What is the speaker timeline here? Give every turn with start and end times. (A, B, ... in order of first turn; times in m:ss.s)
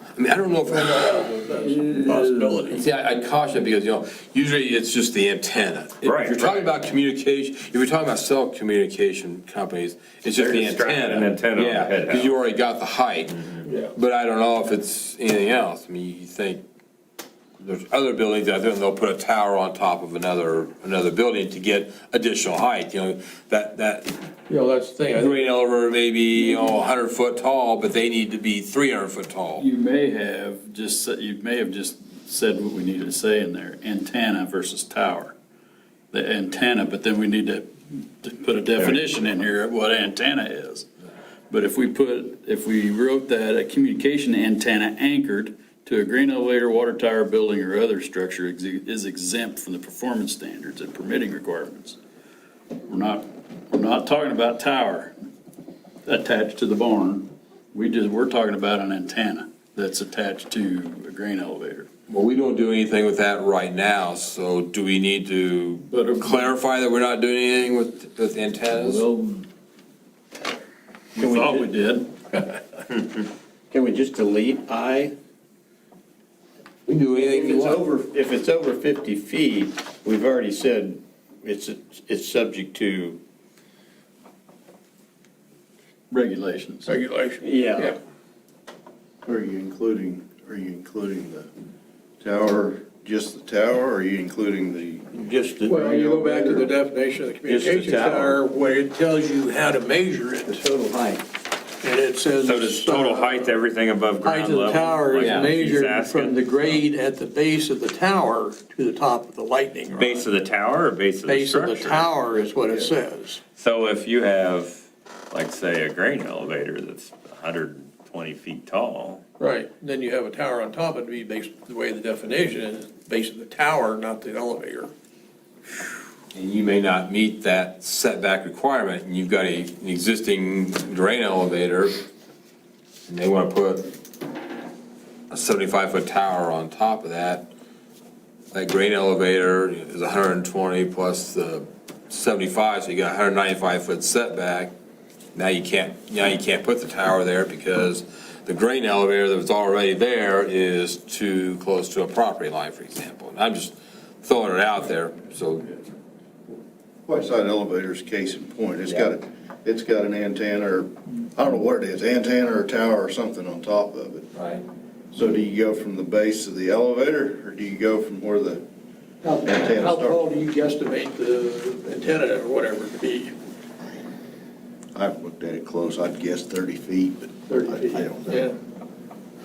0:00.2-0:01.4 A
0:00.9-0:02.8 B
0:02.7-0:16.6 A
0:06.0-0:06.7 C
0:10.4-0:12.4 C
0:13.4-0:13.6 C
0:17.6-0:24.2 A
0:24.5-0:25.4 B
0:25.1-0:29.6 A
0:29.6-0:35.3 D
0:36.1-0:40.9 D
0:41.5-0:52.0 D
0:52.9-0:55.2 D
0:56.1-1:01.9 D
1:02.1-1:09.0 A
1:05.9-1:06.5 D
1:08.7-1:09.4 D
1:11.2-1:12.1 D
1:11.2-1:11.7 E
1:13.7-1:15.1 E
1:16.9-1:17.8 A
1:17.1-1:23.2 E
1:26.1-1:27.0 D
1:26.9-1:28.0 B
1:27.4-1:28.0 E
1:29.2-1:31.5 F
1:32.2-1:35.1 F
1:35.1-1:36.7 E
1:35.7-1:40.6 B
1:35.9-1:36.7 F
1:37.5-1:38.4 E
1:40.5-1:41.2 E
1:41.8-1:43.6 B
1:42.4-1:46.8 C
1:44.2-1:50.3 B
1:45.2-1:45.5 A
1:50.0-1:52.1 C
1:51.3-1:53.4 B
1:53.6-1:59.2 C
1:59.4-2:04.9 B
2:06.3-2:11.9 A
2:13.1-2:13.9 A
2:15.3-2:17.5 A
2:18.5-2:24.7 A
2:25.4-2:35.8 A
2:37.1-2:44.3 F
2:44.3-2:44.6 A
2:45.1-2:48.6 F
2:49.2-2:53.4 B
2:49.4-2:50.2 F
2:55.0-2:58.5 F
2:57.5-2:58.6 B